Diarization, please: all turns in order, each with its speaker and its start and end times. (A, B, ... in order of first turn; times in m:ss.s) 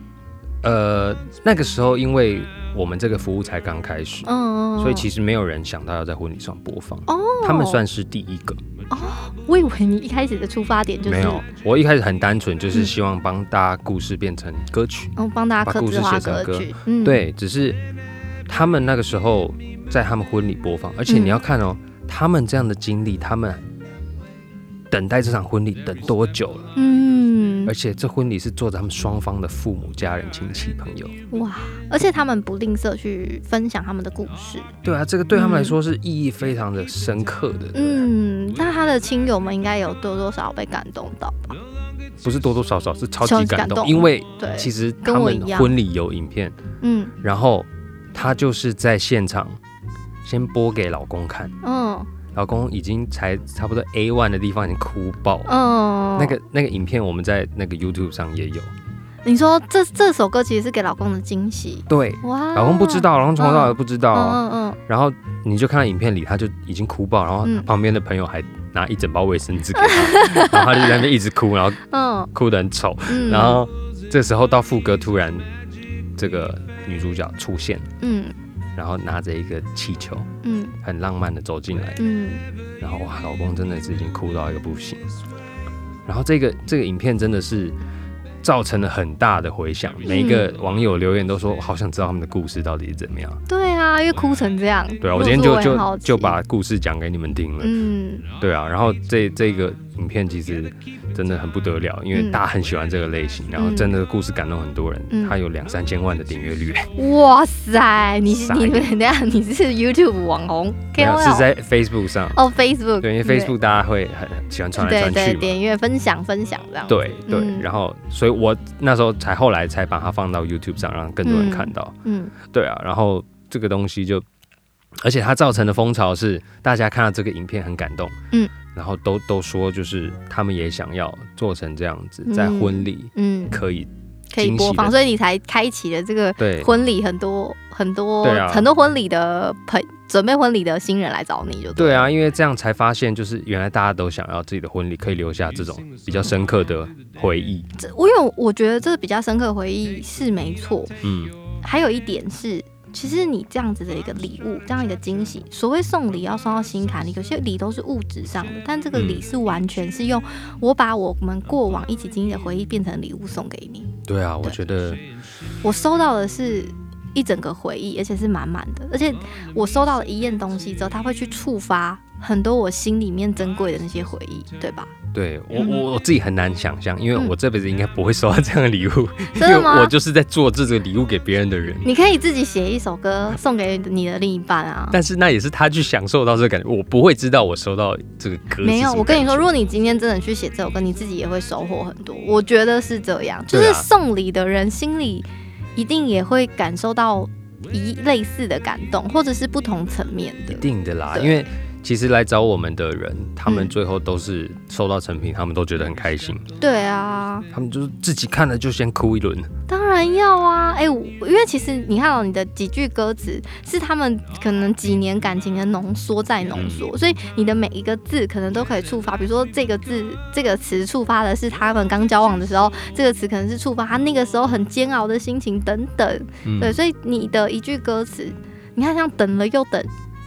0:00.6-0:08.6 A
0:04.2-0:05.1 B
0:07.1-0:07.8 B
0:08.9-0:11.4 B
0:11.0-0:17.8 A
0:15.2-0:17.2 B
0:18.5-0:23.6 A
0:21.1-0:21.4 B
0:24.9-0:26.7 A
0:26.8-0:27.7 B
0:27.6-0:31.1 A
0:31.3-0:34.7 B
0:34.8-0:38.1 A
0:35.3-0:35.8 B
0:37.7-0:41.6 B
0:42.2-0:46.5 A
0:43.2-0:45.7 B
0:46.8-0:47.1 B
0:47.2-0:49.6 A
0:50.2-0:51.6 A
0:51.6-0:52.1 B
0:52.3-0:55.5 A
0:55.4-0:56.4 B
0:56.2-0:58.7 A
0:59.2-1:04.8 B
1:01.9-1:15.4 A
1:09.7-1:11.0 B
1:11.9-1:12.3 B
1:13.1-1:13.6 B
1:16.1-1:17.9 A
1:18.0-1:18.3 B
1:18.8-1:20.3 A
1:20.4-1:20.8 B
1:20.8-1:22.0 A
1:22.0-1:22.4 B
1:22.8-1:25.1 A
1:26.0-1:27.8 A
1:28.4-1:33.4 A
1:30.0-1:30.5 B
1:33.5-1:36.4 B
1:35.0-1:37.7 A
1:37.6-1:38.3 B
1:38.3-1:46.9 A
1:42.1-1:42.4 B
1:43.6-1:43.9 B
1:45.1-1:45.4 B
1:47.0-1:51.5 B
1:48.3-1:48.9 A
1:51.0-1:52.5 A
1:52.3-1:53.5 B
1:53.0-1:55.6 A
1:54.8-1:57.6 B
1:56.9-2:04.2 A
2:01.2-2:02.3 B
2:05.0-2:08.1 A
2:08.7-2:14.9 A
2:12.2-2:13.6 B
2:14.3-2:22.1 B
2:16.4-2:16.7 A
2:18.2-2:18.7 A
2:21.8-2:27.7 A
2:27.8-2:31.0 B
2:31.0-2:31.3 A
2:31.6-2:43.9 B
2:38.9-2:39.2 A
2:44.0-2:45.0 A
2:45.6-2:54.9 B
2:55.1-3:01.9 A
2:55.6-2:55.8 B
2:59.3-2:59.9 B
3:01.8-3:05.0 B
3:04.9-3:09.5 A
3:08.6-3:21.4 B
3:13.5-3:13.9 A
3:20.5-3:26.4 A
3:23.4-3:23.7 B
3:26.6-3:27.5 B
3:27.5-3:29.5 A
3:29.7-3:49.9 B
3:36.5-3:36.9 A
3:46.4-3:46.8 A